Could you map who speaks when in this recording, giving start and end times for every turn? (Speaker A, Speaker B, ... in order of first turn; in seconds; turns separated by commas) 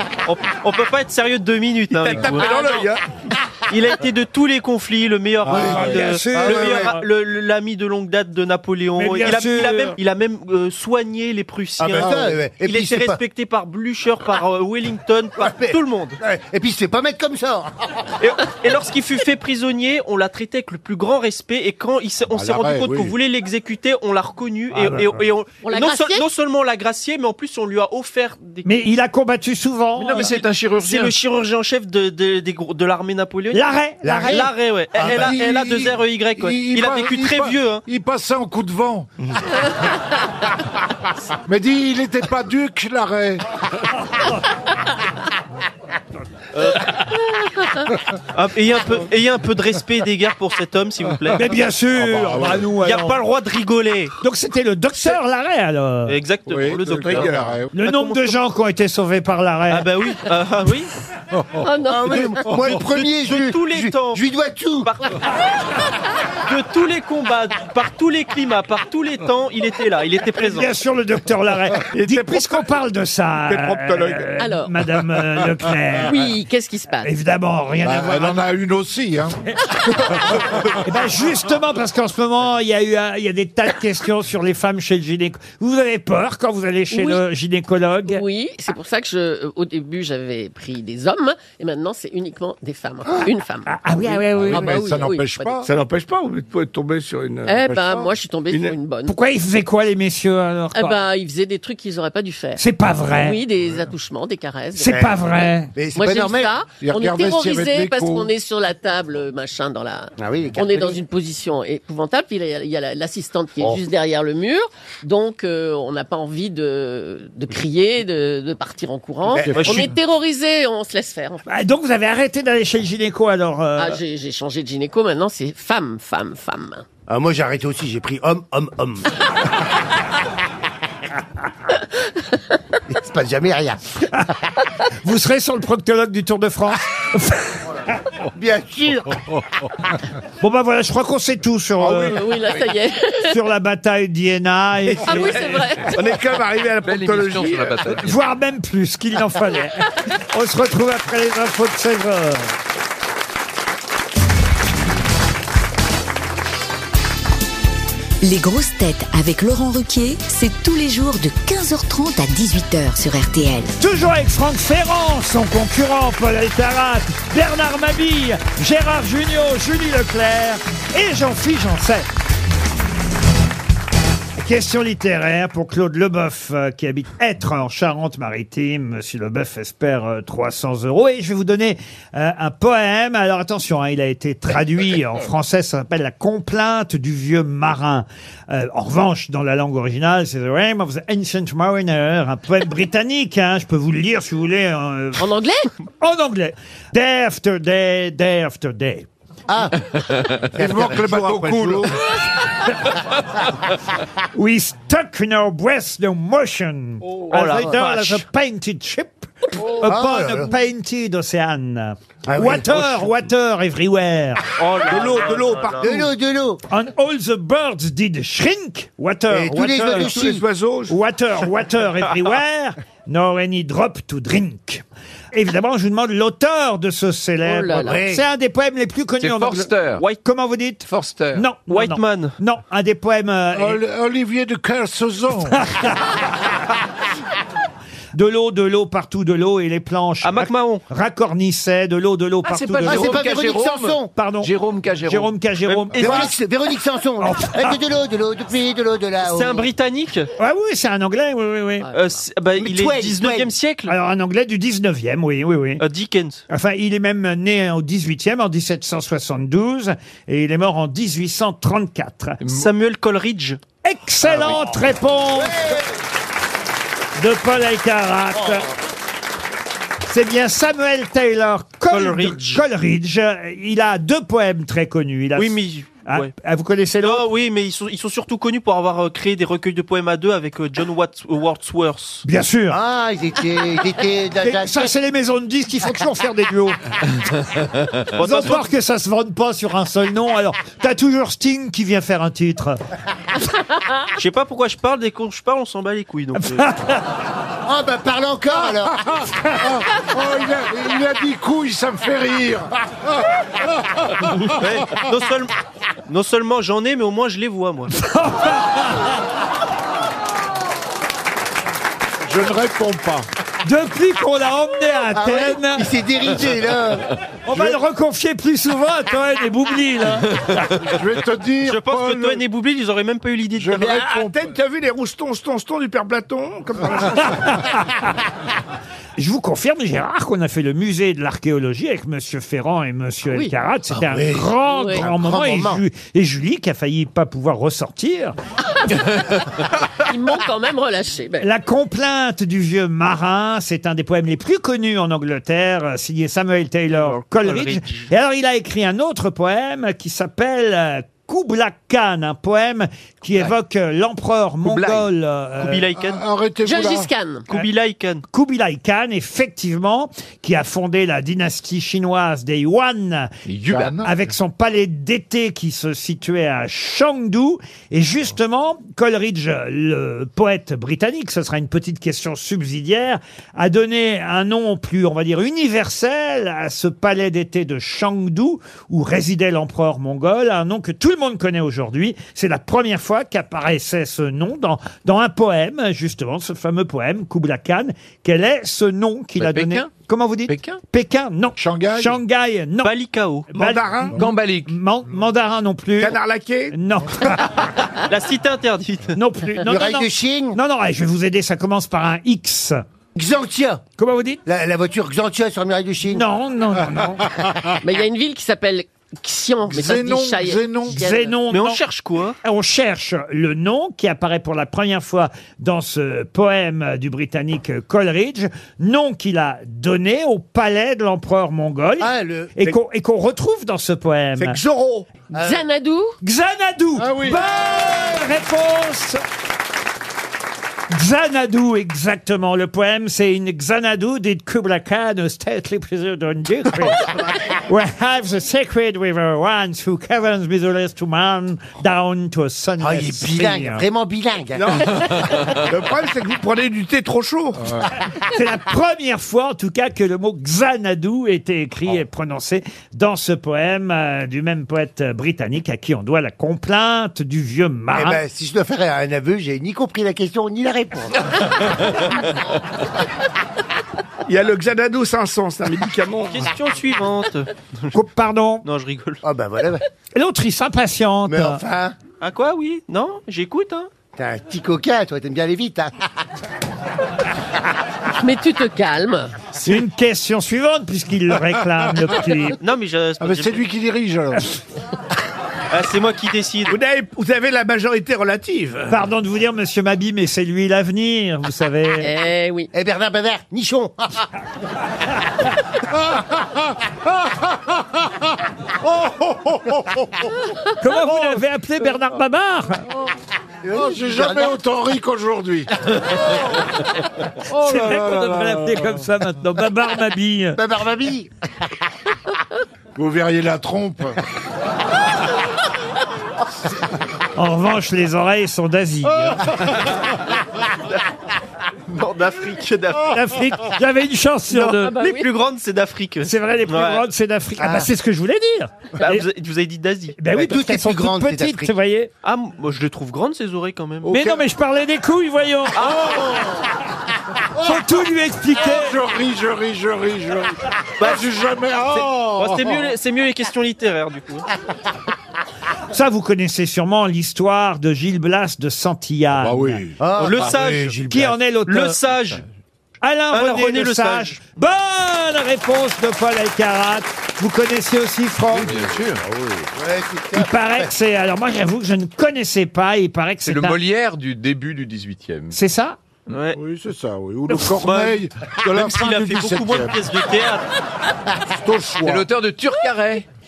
Speaker A: 0.2-2.8, Speaker B: 1.9-3.0, Speaker C: 2.4-2.9, Speaker A: 3.7-16.2, Speaker D: 5.5-6.9, Speaker E: 5.5-7.0, Speaker E: 9.0-10.0, Speaker D: 11.8-13.2, Speaker F: 12.0-12.3, Speaker D: 15.4-17.7, Speaker A: 18.2-28.7, Speaker F: 22.3-23.1, Speaker E: 24.7-25.2, Speaker C: 25.6-26.2, Speaker E: 28.6-30.3, Speaker G: 30.0-31.1, Speaker A: 30.8-33.6, Speaker E: 33.5-34.5, Speaker D: 34.0-35.4, Speaker A: 34.2-37.8, Speaker F: 35.0-39.1, Speaker F: 41.5-43.4, Speaker A: 48.3-51.6, Speaker E: 51.3-53.2, Speaker F: 52.0-52.7, Speaker A: 52.8-54.1, Speaker E: 54.2-56.2, Speaker A: 56.1-58.3, Speaker F: 56.5-57.7, Speaker B: 56.9-57.5, Speaker E: 57.7-59.9, Speaker A: 59.7-60.9, Speaker F: 61.3-61.6, Speaker C: 61.6-62.5, Speaker D: 61.9-64.9, Speaker A: 62.7-64.2, Speaker A: 64.8-65.2, Speaker A: 66.5-70.7, Speaker E: 70.4-76.3, Speaker B: 71.9-72.6, Speaker B: 73.5-74.3, Speaker C: 74.4-74.7, Speaker C: 76.0-77.1, Speaker E: 77.0-78.4, Speaker F: 77.8-79.4, Speaker E: 80.8-88.2, Speaker C: 86.9-87.2, Speaker C: 88.1-95.6, Speaker E: 93.7-94.8, Speaker F: 94.3-95.7, Speaker B: 95.7-97.6, Speaker C: 97.4-99.1, Speaker F: 97.7-98.1, Speaker B: 98.5-98.7, Speaker E: 99.0-101.0, Speaker C: 100.7-105.0, Speaker E: 102.5-103.4, Speaker E: 104.7-105.7, Speaker D: 104.9-105.2, Speaker D: 105.7-106.5, Speaker C: 105.9-121.4, Speaker F: 106.8-108.3, Speaker D: 110.2-111.0, Speaker D: 119.3-119.6, Speaker F: 119.4-119.9, Speaker A: 119.6-119.9, Speaker E: 121.5-124.0, Speaker C: 123.8-126.8, Speaker D: 127.1-129.1, Speaker D: 132.9-133.8, Speaker E: 135.0-137.6, Speaker D: 138.3-139.2, Speaker E: 140.4-142.2, Speaker B: 141.8-142.2, Speaker C: 141.9-143.3, Speaker E: 143.2-145.6, Speaker B: 144.9-148.0, Speaker C: 145.0-146.1, Speaker G: 146.8-148.2, Speaker E: 148.0-152.5, Speaker H: 158.2-163.7, Speaker E: 163.8-172.1, Speaker E: 174.4-195.3, Speaker C: 195.2-195.7, Speaker E: 196.0-199.1, Speaker D: 199.5-201.6, Speaker F: 200.5-202.0, Speaker E: 204.3-214.5, Speaker A: 207.3-208.2, Speaker D: 209.8-210.5, Speaker D: 212.2-213.1, Speaker A: 214.6-216.0, Speaker B: 214.8-215.9, Speaker D: 215.8-216.6, Speaker E: 216.7-220.2, Speaker D: 219.3-220.4, Speaker B: 219.9-221.0, Speaker E: 220.9-229.7, Speaker C: 227.4-228.0, Speaker D: 227.8-228.2, Speaker G: 229.2-230.0, Speaker E: 230.2-233.8, Speaker G: 230.9-231.4, Speaker A: 231.7-232.3, Speaker F: 233.5-235.7, Speaker E: 235.5-236.0, Speaker E: 238.1-243.3, Speaker A: 240.2-240.8, Speaker G: 242.4-245.3, Speaker D: 242.8-244.1, Speaker E: 244.1-244.5, Speaker E: 245.0-246.3, Speaker A: 245.7-246.3, Speaker D: 245.9-249.7, Speaker E: 247.2-247.8, Speaker A: 249.2-250.3, Speaker E: 250.4-251.9, Speaker C: 251.8-252.2, Speaker A: 251.9-253.9, Speaker D: 252.6-253.5, Speaker E: 253.9-255.8, Speaker A: 255.8-256.4, Speaker E: 256.5-262.4, Speaker G: 262.4-262.7, Speaker A: 262.5-263.6, Speaker E: 263.8-265.7, Speaker G: 264.2-264.6, Speaker D: 265.4-265.8, Speaker E: 267.2-268.7, Speaker E: 270.1-275.5, Speaker A: 271.9-272.6, Speaker A: 275.4-276.3, Speaker E: 276.1-277.2, Speaker A: 277.0-282.2, Speaker E: 282.2-282.8, Speaker D: 282.7-284.9, Speaker E: 284.4-286.8, Speaker A: 288.1-288.7, Speaker E: 288.2-292.8, Speaker A: 294.2-296.7, Speaker E: 296.4-297.0, Speaker D: 297.6-299.1, Speaker F: 298.9-304.6, Speaker A: 304.5-305.5, Speaker A: 306.1-307.9, Speaker E: 307.9-309.2, Speaker F: 312.2-313.2, Speaker E: 313.6-315.9, Speaker D: 315.1-317.1, Speaker E: 317.4-320.6, Speaker F: 320.8-322.4, Speaker A: 321.6-323.8, Speaker F: 323.5-324.5, Speaker B: 323.8-327.6, Speaker E: 327.2-328.1, Speaker E: 329.2-338.4, Speaker D: 333.9-335.8, Speaker C: 334.6-335.0, Speaker C: 340.1-341.5, Speaker E: 341.4-355.8, Speaker A: 346.9-348.1, Speaker G: 354.6-355.1, Speaker A: 355.6-356.2, Speaker F: 356.0-357.1, Speaker C: 356.6-357.4, Speaker A: 357.5-358.2, Speaker E: 358.3-363.3, Speaker G: 363.4-364.0, Speaker F: 363.7-364.1, Speaker E: 364.0-392.9, Speaker G: 389.4-389.9, Speaker G: 390.5-390.8, Speaker F: 391.6-392.2, Speaker A: 392.8-393.5, Speaker B: 393.5-394.1, Speaker E: 393.5-396.2, Speaker G: 394.1-394.7, Speaker B: 396.0-396.8, Speaker E: 396.7-397.6, Speaker A: 398.1-399.2, Speaker E: 399.1-402.8, Speaker D: 399.6-400.6, Speaker D: 403.1-403.8, Speaker E: 404.0-404.4, Speaker D: 404.4-406.2, Speaker E: 406.1-407.2, Speaker C: 407.8-411.4, Speaker F: 409.7-411.0, Speaker E: 410.9-411.8, Speaker A: 411.5-412.4, Speaker E: 412.4-424.6, Speaker D: 422.0-422.5, Speaker B: 424.4-425.1, Speaker D: 425.3-425.6, Speaker C: 425.3-426.1, Speaker E: 426.2-429.2, Speaker F: 427.0-427.4, Speaker E: 430.9-443.8, Speaker D: 442.8-445.2, Speaker B: 444.6-447.8, Speaker E: 448.2-458.2, Speaker D: 457.9-461.4, Speaker B: 464.2-466.5, Speaker A: 466.3-467.9, Speaker E: 467.9-468.6, Speaker A: 468.6-469.2, Speaker D: 469.2-469.8, Speaker E: 470.1-471.6, Speaker D: 471.3-472.0, Speaker A: 472.2-473.9, Speaker D: 474.2-475.9, Speaker C: 478.2-479.3, Speaker E: 479.6-482.6, Speaker A: 482.6-483.7, Speaker F: 483.2-484.4, Speaker A: 485.7-486.8, Speaker B: 486.7-488.9, Speaker E: 488.9-492.1, Speaker C: 492.0-492.7, Speaker D: 492.7-494.2, Speaker F: 499.0-499.6, Speaker E: 500.8-502.8, Speaker D: 503.6-504.6, Speaker F: 503.7-505.7, Speaker F: 507.5-509.0, Speaker E: 507.5-510.6, Speaker D: 510.6-511.3, Speaker F: 513.0-514.2, Speaker E: 517.4-519.5, Speaker A: 521.9-523.3, Speaker E: 523.1-525.0, Speaker A: 524.5-527.0, Speaker C: 524.8-525.3, Speaker E: 526.2-529.2, Speaker D: 527.6-527.9, Speaker A: 529.0-530.2, Speaker E: 530.2-532.1, Speaker D: 530.3-531.7, Speaker A: 532.2-534.3, Speaker E: 534.1-535.9, Speaker A: 535.8-536.4, Speaker F: 535.8-536.3, Speaker E: 537.6-539.0, Speaker F: 538.5-542.9, Speaker A: 541.0-541.3, Speaker A: 541.9-544.5, Speaker E: 545.9-549.8, Speaker F: 549.4-550.0, Speaker D: 550.0-551.4, Speaker A: 550.2-551.0, Speaker E: 551.1-552.0, Speaker A: 551.7-552.4, Speaker E: 553.0-558.8, Speaker A: 553.3-554.4, Speaker G: 558.5-559.2, Speaker D: 559.7-560.9, Speaker E: 560.3-563.8, Speaker G: 563.4-565.5, Speaker E: 565.5-566.0, Speaker A: 566.3-566.6, Speaker F: 566.5-570.0, Speaker A: 567.7-570.6, Speaker F: 571.5-572.3, Speaker G: 572.0-573.2